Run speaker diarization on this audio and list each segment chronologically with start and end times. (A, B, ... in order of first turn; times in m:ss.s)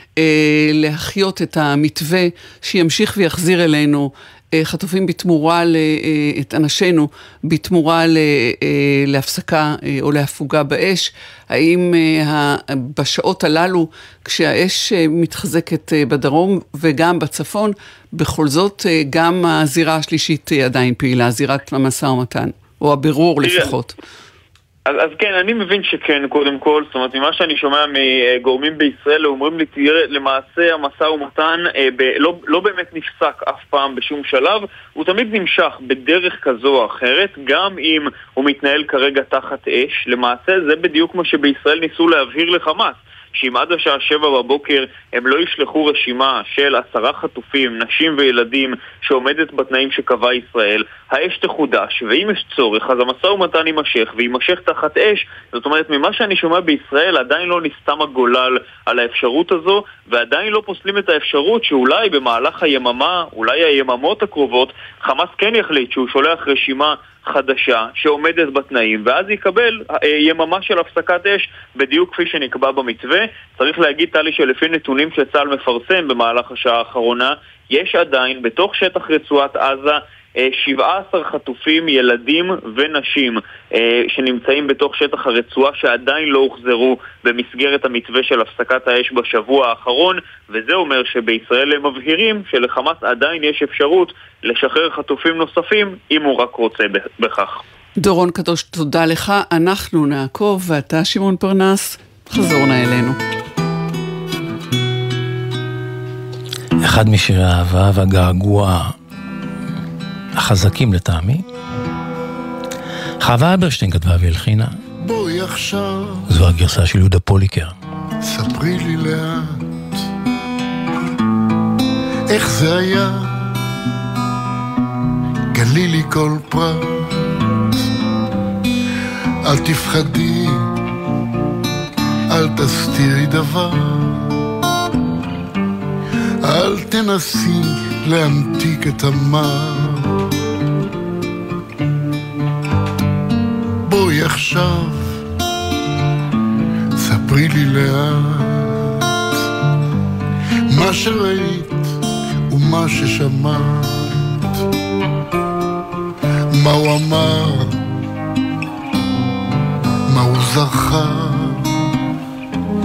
0:00.2-0:23.9 A
0:23.4-0:23.7 B
0:24.9-1:37.6 B
1:38.0-1:43.2 A
1:46.8-1:48.9 C
1:50.4-1:51.4 C
1:53.2-1:54.8 C
1:55.0-1:56.3 D
1:56.3-1:57.7 C
1:58.2-1:59.6 D
2:02.3-2:03.6 D
2:05.5-2:07.2 D
2:09.4-2:10.7 D
2:12.3-2:14.3 D
2:16.4-2:20.2 D
2:23.8-2:25.2 D
2:27.0-2:29.0 D
2:30.7-2:32.0 D
2:32.5-2:34.4 D
2:36.5-2:37.8 D
2:40.1-2:41.7 D